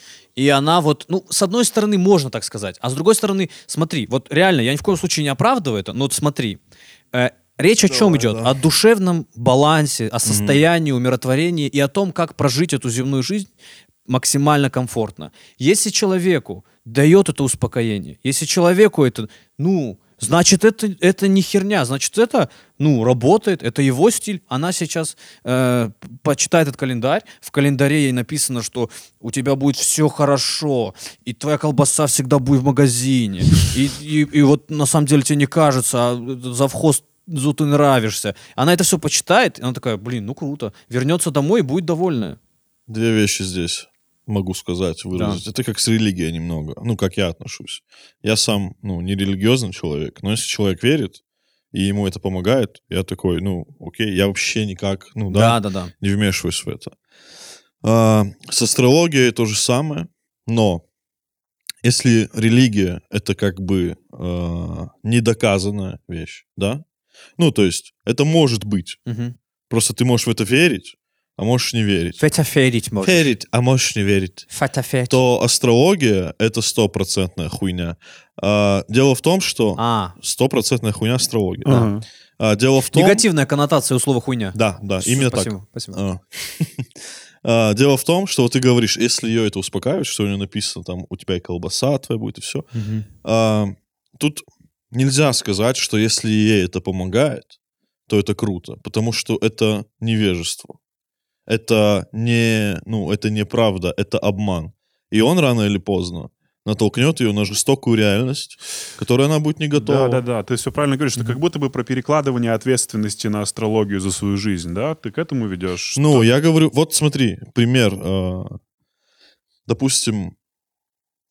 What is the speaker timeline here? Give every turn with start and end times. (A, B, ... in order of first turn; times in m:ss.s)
0:00.4-0:06.6 A
0:07.1-0:13.5 A
0:07.9-0:08.6 B
0:10.2-0:10.6 B
0:14.1-0:42.4 A
0:42.9-0:51.2 B
0:45.1-0:45.4 A
0:51.7-0:57.0 B
0:55.3-0:55.9 A
0:57.8-1:00.8 B
1:01.8-1:06.8 B
1:07.4-1:09.0 B
1:09.1-1:09.4 A
1:09.7-1:12.2 B
1:12.2-1:13.3 A
1:13.0-1:14.5 B
1:14.5-1:15.2 A
1:15.1-1:21.8 B
1:19.8-1:20.2 A
1:21.6-1:22.0 C
1:22.4-1:23.2 B
1:22.9-1:26.0 A
1:24.5-1:26.9 B
1:27.4-1:32.7 B
1:32.7-1:33.1 A
1:33.2-1:37.5 B
1:38.1-1:40.8 B
1:41.5-1:50.2 B
1:49.8-1:56.3 C
1:56.0-1:58.6 B
1:59.7-2:00.3 B